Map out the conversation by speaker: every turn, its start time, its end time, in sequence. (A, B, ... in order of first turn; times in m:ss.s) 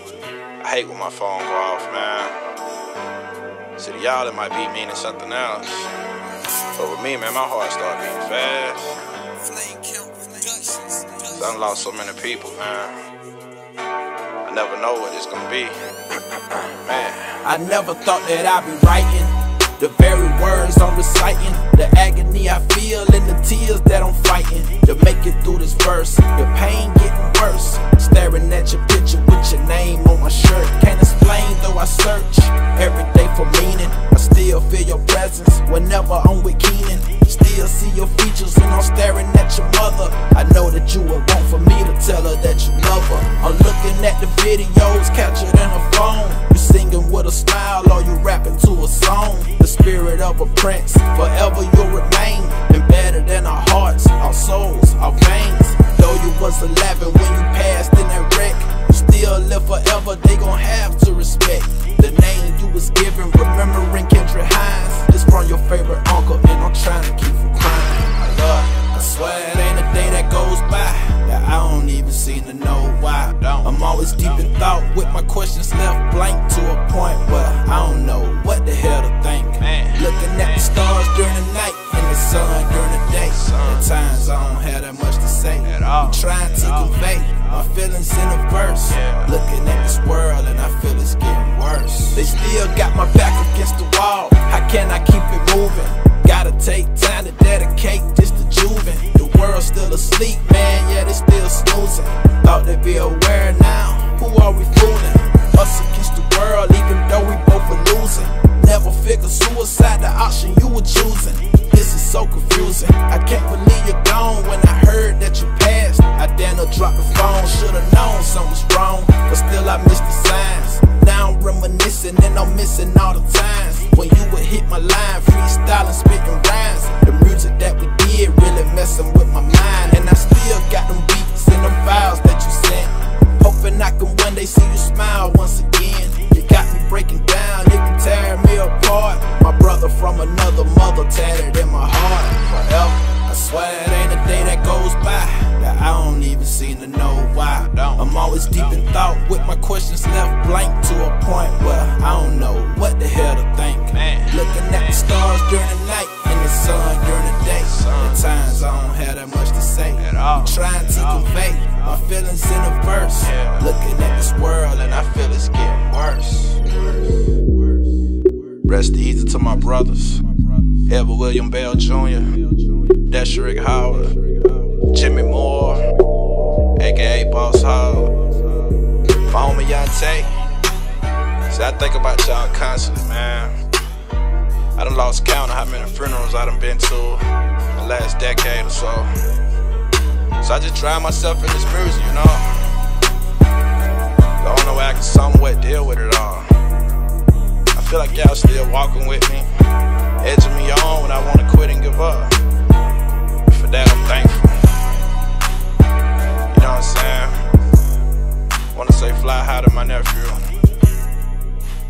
0:00.6-0:02.4 A
0:03.8-0:05.9 A
0:06.7-0:09.0 A
0:09.5-0:11.4 B
0:11.2-0:13.0 A
0:14.4-0:15.8 A
0:16.6-0:17.4 A
0:17.3-2:46.7 B
1:19.6-1:20.0 A
1:23.4-1:24.0 A
1:25.7-1:26.9 A
1:28.9-1:29.3 A
2:33.9-2:34.3 A
2:37.7-2:38.3 A
2:40.0-2:41.3 A
2:43.2-2:43.6 A
2:48.6-2:50.2 B
2:49.9-2:50.2 A
2:50.9-2:52.2 B
2:52.0-2:52.4 A
2:53.1-2:54.2 B
2:53.3-2:56.0 A
2:56.7-2:58.2 A
2:59.3-3:00.3 B
3:01.5-3:03.6 A
3:04.8-3:09.3 A
3:10.4-3:12.7 A
3:14.4-3:16.6 A
3:17.8-3:19.5 A
3:20.2-3:22.4 A
3:23.5-3:24.7 A
3:26.5-3:27.4 A
3:28.7-3:30.6 A